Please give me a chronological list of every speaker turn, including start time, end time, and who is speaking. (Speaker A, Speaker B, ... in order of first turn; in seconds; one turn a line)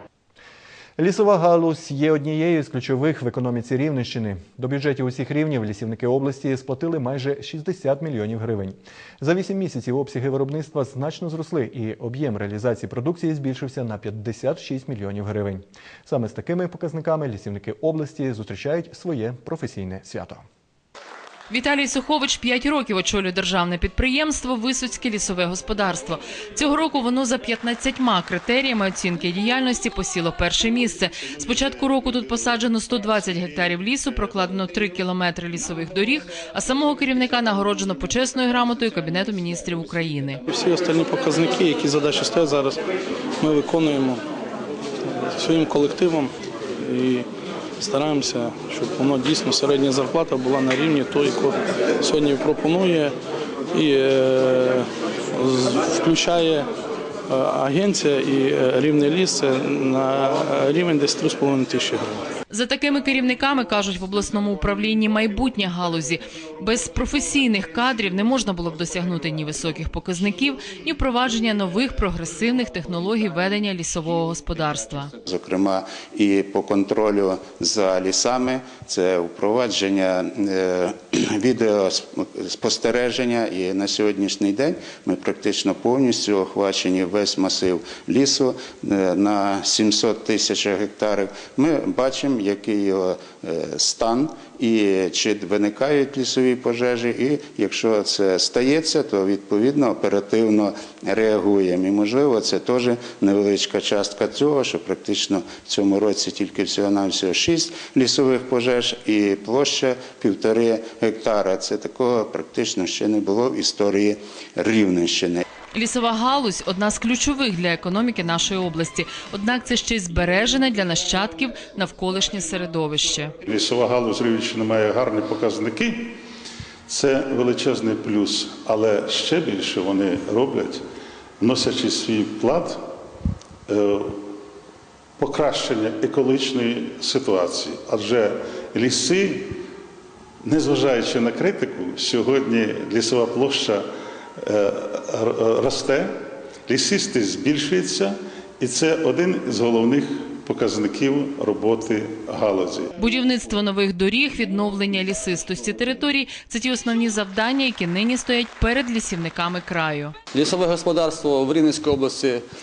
Speaker A: 1.0-20.4
Speaker B: 21.5-40.4
Speaker C: 40.5-42.8
Speaker C: 43.4-44.2
Speaker C: 45.3-46.3
Speaker C: 46.8-47.3
Speaker C: 47.8-53.1
Speaker C: 53.7-56.7
Speaker C: 57.3-62.1
Speaker B: 62.5-75.1
Speaker D: 75.2-115.4
Speaker B: 115.7-123.3
Speaker E: 123.5-126.1
Speaker E: 126.9-130.8
Speaker E: 131.4-132.8
Speaker E: 133.7-134.2
Speaker E: 135.2-139.6
Speaker E: 140.4-143.8
Speaker E: 144.4-146.1
Speaker E: 146.7-152.9
Speaker B: 153.0-160.1
Speaker F: 160.3-162.4